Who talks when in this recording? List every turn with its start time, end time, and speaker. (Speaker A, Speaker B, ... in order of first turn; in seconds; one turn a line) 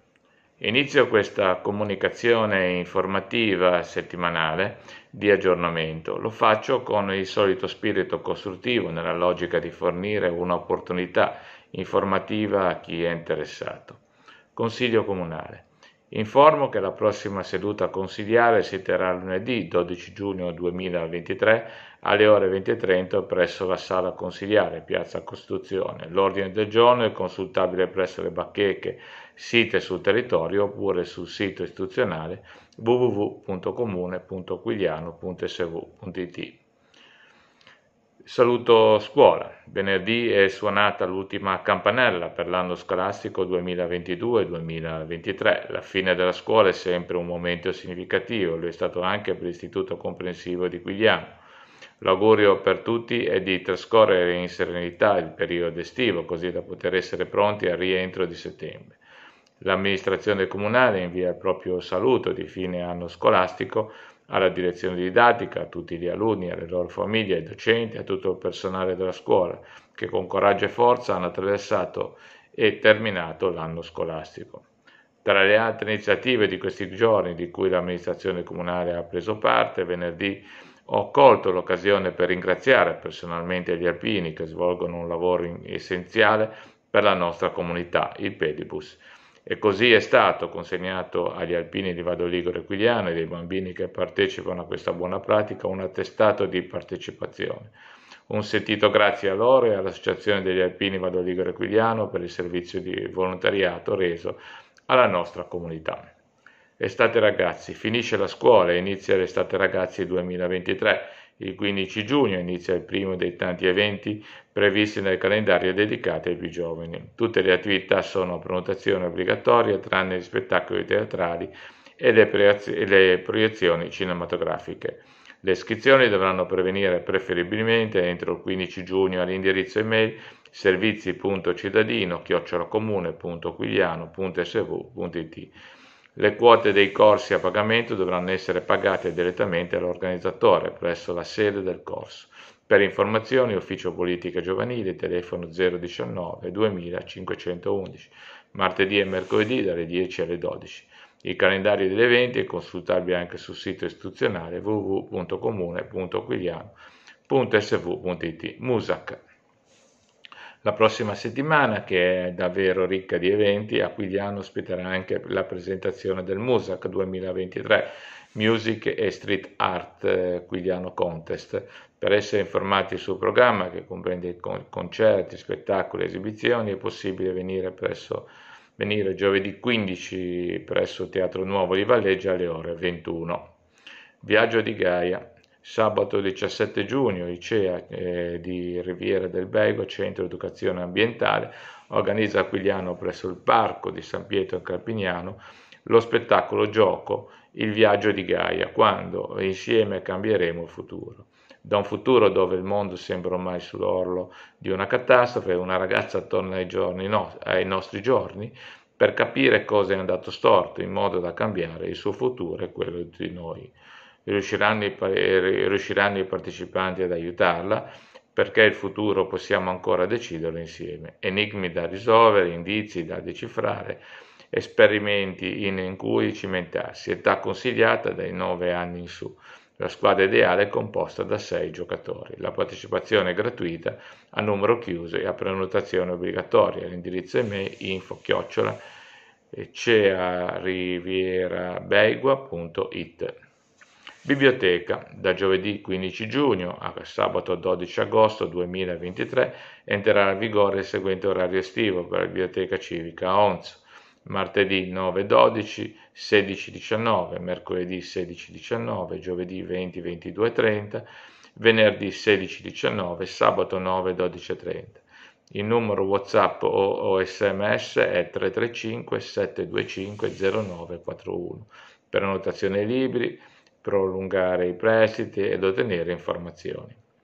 Speaker A: 0.6-14.0
Speaker A: 14.5-36.6
Speaker A: 38.2-51.4
Speaker A: 52.0-59.0
Speaker A: 59.6-74.7
Speaker A: 75.2-97.7
Speaker A: 98.3-106.1
Speaker A: 106.8-135.5
Speaker A: 136.2-156.7
Speaker A: 157.3-159.2
Speaker A: 160.6-183.6
Speaker A: 184.2-213.7
Speaker A: 214.2-238.8
Speaker A: 239.5-243.4
Speaker A: 244.2-277.0